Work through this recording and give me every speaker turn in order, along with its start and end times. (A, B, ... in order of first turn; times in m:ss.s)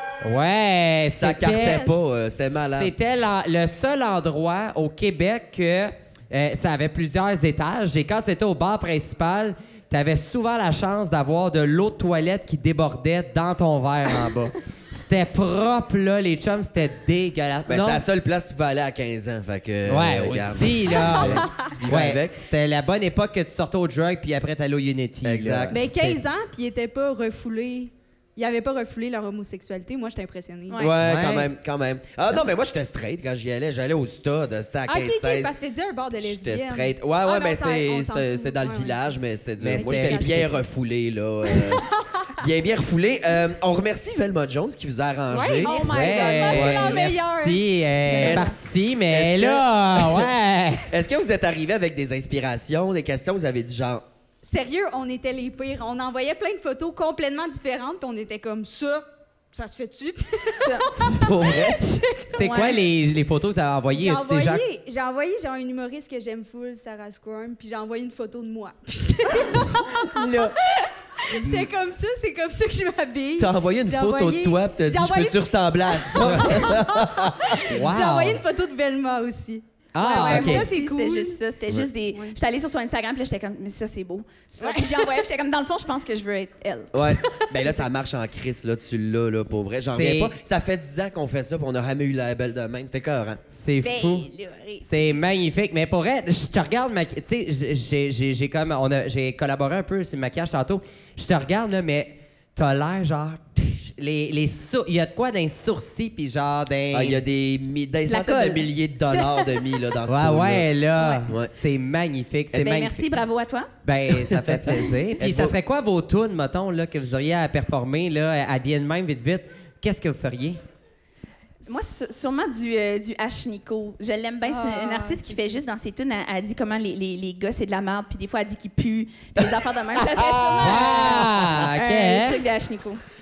0:00.2-0:01.9 A
0:01.1-0:02.9 B
0:02.8-0:18.0 A
0:17.7-0:22.4 B
0:19.9-0:26.2 A
0:25.2-0:25.8 B
0:25.7-0:30.9 C
0:30.7-0:31.0 D
0:30.8-0:35.5 B
0:31.0-0:31.5 A
0:34.9-0:39.1 C
0:36.2-0:41.9 B
0:39.6-0:40.5 A
0:39.7-0:40.6 C
0:41.4-0:42.4 C
0:42.4-0:45.8 B
0:45.3-0:48.4 C
0:45.6-0:47.1 D
0:45.8-0:50.9 A
0:46.5-0:47.0 B
0:48.1-0:48.5 D
0:48.2-0:48.6 B
0:49.1-0:50.3 B
0:50.9-0:54.0 B
0:54.4-1:02.7 C
1:00.6-1:01.0 D
1:01.1-1:01.8 B
1:02.3-1:04.6 A
1:02.4-1:02.8 D
1:03.9-1:21.4 C
1:11.4-1:11.7 A
1:13.4-1:17.7 B
1:17.6-1:18.4 A
1:19.9-1:20.7 A
1:20.0-1:27.0 D
1:20.3-1:20.6 B
1:22.1-1:22.4 C
1:24.6-1:25.3 C
1:26.9-1:33.4 B
1:27.2-1:27.7 C
1:29.9-1:30.4 A
1:33.6-1:34.3 A
1:33.8-1:34.9 D
1:34.8-1:47.3 A
1:46.9-1:50.7 B
1:48.1-1:49.5 D
1:50.1-1:53.1 A
1:51.0-1:51.2 D
1:51.2-1:51.5 B
1:52.5-1:53.7 D
1:53.8-2:00.6 A
1:54.2-1:55.6 B
2:01.6-2:13.0 D
2:04.4-2:05.4 C
2:09.4-2:11.5 B
2:10.6-2:12.4 A